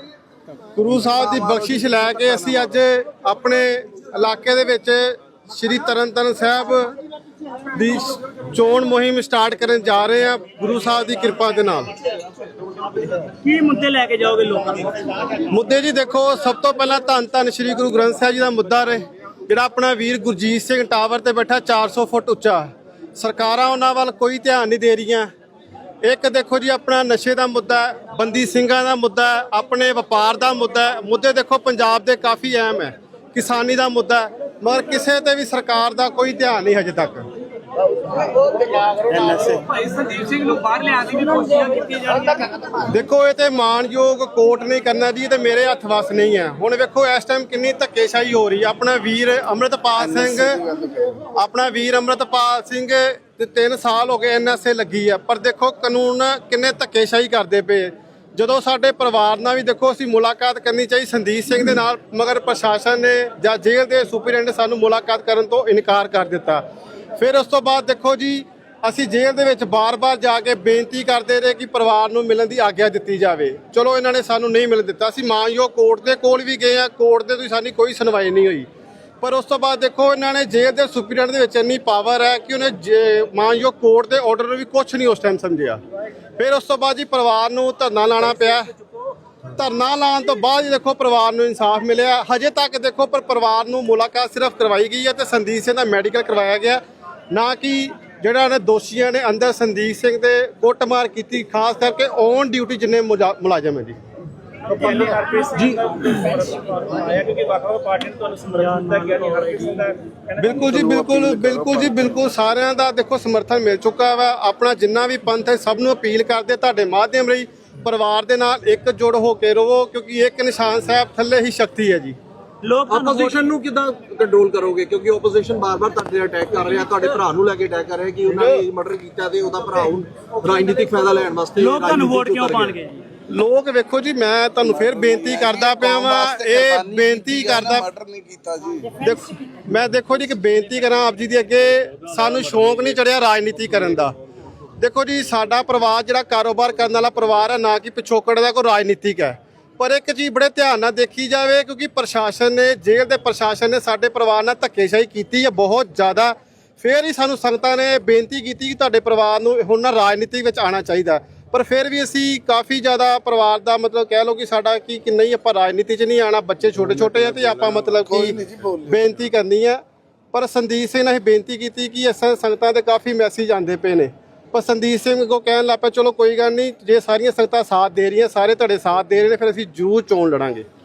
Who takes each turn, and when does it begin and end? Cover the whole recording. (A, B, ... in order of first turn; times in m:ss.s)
0:00.8-0:06.9 A
0:01.2-0:02.8 B
0:07.7-0:11.9 A
0:13.2-0:15.2 C
0:15.5-0:25.3 A
0:26.0-0:37.3 A
0:38.6-0:42.8 C
0:42.9-0:50.6 A
0:50.0-0:51.1 B
0:51.4-1:06.6 A
1:07.2-1:18.7 A
1:19.2-1:25.8 A
1:26.4-1:28.7 A
1:29.5-1:44.0 A
1:44.7-1:50.7 C
1:50.4-2:02.2 A
1:50.7-1:52.2 B
2:02.6-2:03.4 C
2:02.9-2:12.8 D
2:11.6-2:13.0 C
2:13.3-2:17.9 A
2:14.7-2:19.0 B
2:19.0-2:24.1 A
2:24.8-2:49.8 A
2:46.8-2:49.1 B
2:50.3-3:00.7 A